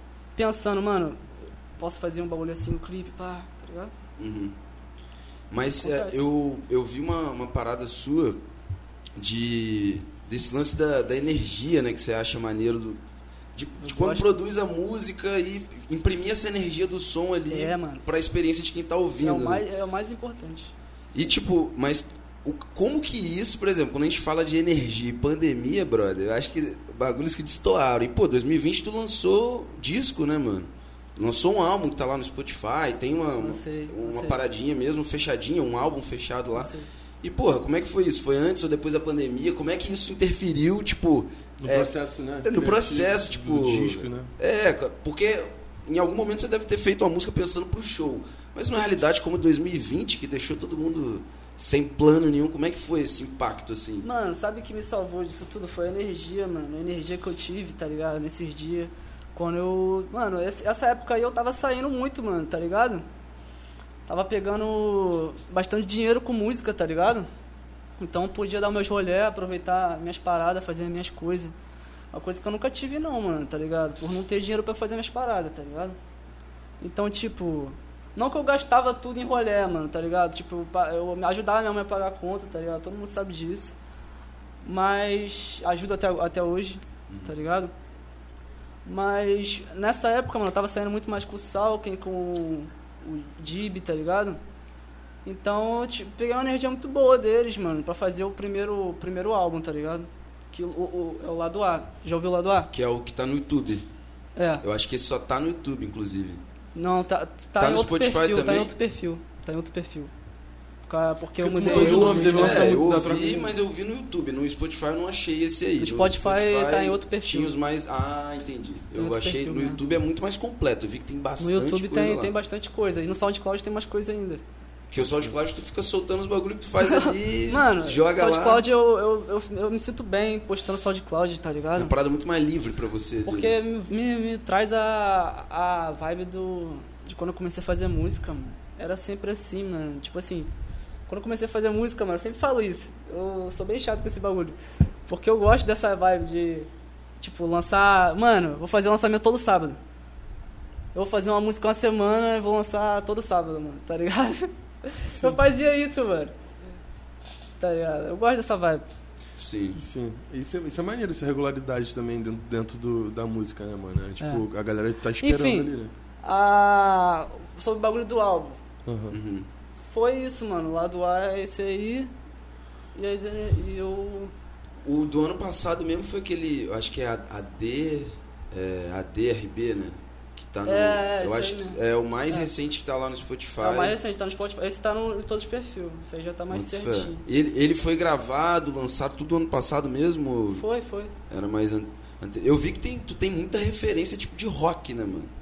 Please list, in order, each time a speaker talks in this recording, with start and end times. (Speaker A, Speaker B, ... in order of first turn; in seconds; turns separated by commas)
Speaker A: 0.4-3.9, Speaker B: 4.2-4.5, Speaker B: 5.5-8.4, Speaker A: 5.8-6.3, Speaker B: 9.2-13.0, Speaker B: 13.6-19.6, Speaker A: 13.8-14.3, Speaker A: 17.5-18.0, Speaker A: 19.2-21.4, Speaker B: 21.1-41.9, Speaker A: 33.4-34.4, Speaker A: 36.5-36.9, Speaker C: 41.6-44.3, Speaker B: 42.4-54.1, Speaker A: 54.0-63.0, Speaker A: 64.1-67.3, Speaker A: 68.0-71.5, Speaker A: 72.1-76.0, Speaker A: 76.8-83.8, Speaker A: 84.6-87.7, Speaker A: 88.8-94.4, Speaker A: 95.2-102.7, Speaker B: 102.7-103.9, Speaker A: 104.4-104.6, Speaker B: 104.6-106.4, Speaker A: 106.8-110.1, Speaker B: 107.6-108.7, Speaker A: 110.9-112.8, Speaker C: 111.4-113.5, Speaker B: 111.6-122.3, Speaker A: 115.8-117.6, Speaker A: 119.0-119.8, Speaker A: 121.4-124.4, Speaker B: 124.9-128.6, Speaker A: 126.8-131.9, Speaker B: 131.8-133.6, Speaker A: 133.3-140.5, Speaker A: 141.1-144.6, Speaker A: 145.1-146.7, Speaker A: 147.2-149.8, Speaker A: 150.9-156.3, Speaker C: 155.1-155.4, Speaker A: 157.6-158.8, Speaker B: 159.4-159.8, Speaker C: 159.8-165.9, Speaker A: 164.2-164.4, Speaker A: 165.2-168.6, Speaker C: 168.8-169.2, Speaker B: 169.1-169.5, Speaker A: 169.9-172.1, Speaker A: 172.9-174.3, Speaker B: 174.8-184.0, Speaker A: 180.7-181.8, Speaker A: 183.6-187.2, Speaker B: 186.5-190.7, Speaker A: 190.5-191.1, Speaker B: 191.3-195.3